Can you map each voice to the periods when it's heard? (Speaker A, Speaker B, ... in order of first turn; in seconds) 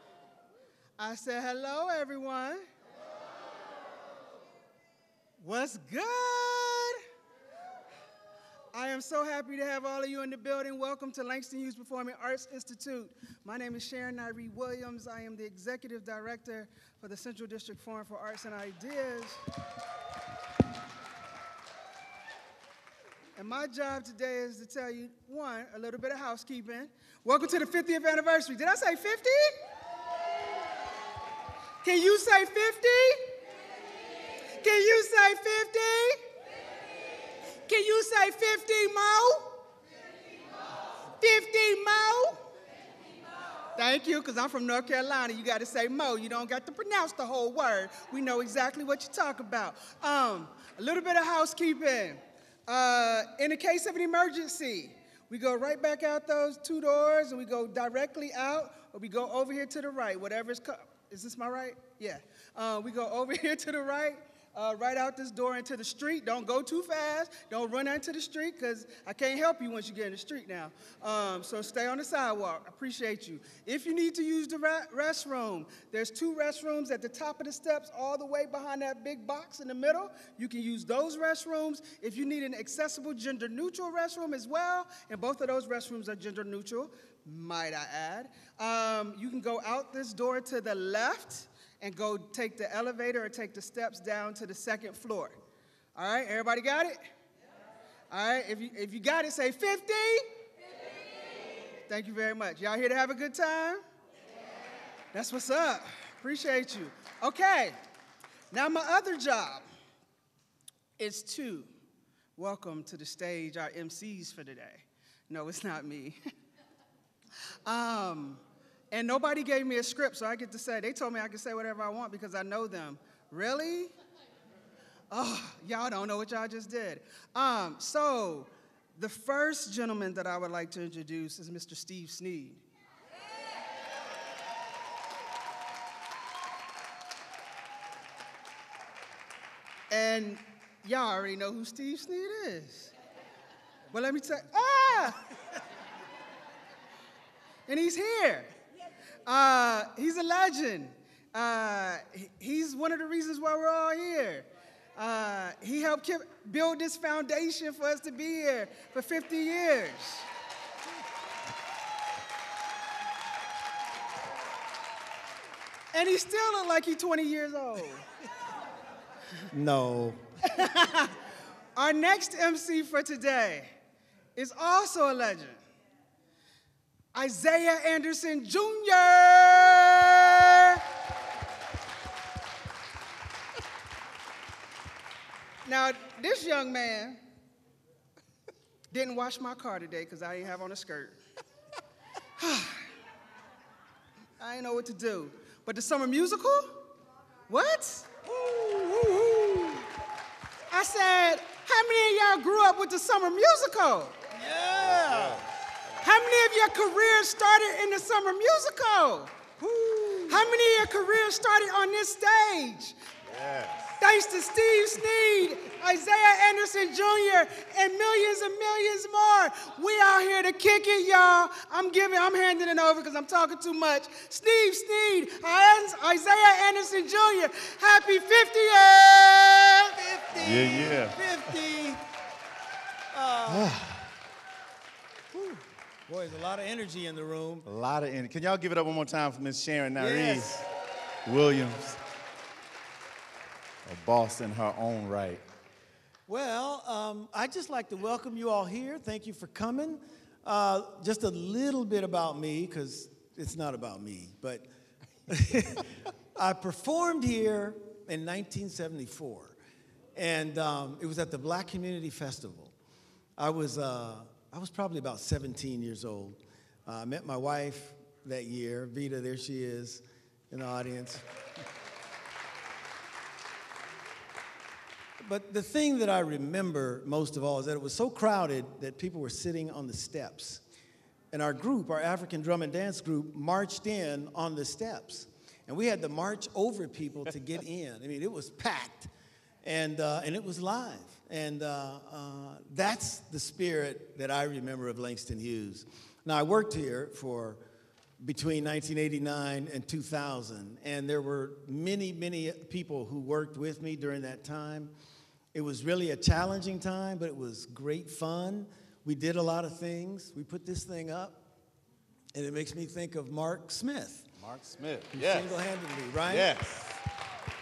Speaker A: 1.0-2.6, 5.4-7.0, 8.7-19.4, 23.4-29.6, 31.8-33.2, 34.6-36.2, 37.7-39.6, 41.2-42.4, 43.8-95.4, 96.0-97.0, 98.1-100.2, 101.9-103.8, 105.1-107.8, 108.5-109.6, 111.0-111.7, 112.4-116.2, 117.7-123.9, 125.1-132.6, 139.9-142.9, 143.9-145.2, 147.7-148.5, 149.2-160.3, 165.9-168.1, 171.8-173.7, 174.3-175.6, 177.1-180.8, 185.7-187.2, 188.9-191.2, 192.4-192.9, 194.4-196.8, 197.5-198.2, 200.7-204.1, 206.0-209.5, 210.2-213.0, 214.0-229.9
Speaker B: 169.5-170.7, 198.3-199.6, 204.3-205.5, 209.7-210.3, 229.9-232.0, 233.1-233.8, 235.3-237.7, 240.0-240.7, 246.3-254.7, 255.3-259.6, 260.1-262.7, 263.4-271.2, 275.2-280.6, 281.3-289.1, 289.6-297.6, 298.2-304.9, 305.5-311.4, 312.3-314.3, 315.1-316.5
Speaker C: 204.8-205.5, 213.3-214.0, 230.3-231.2, 233.5-234.1, 237.6-240.7, 241.2-242.0, 243.8-245.4, 314.4-315.6, 316.2-317.0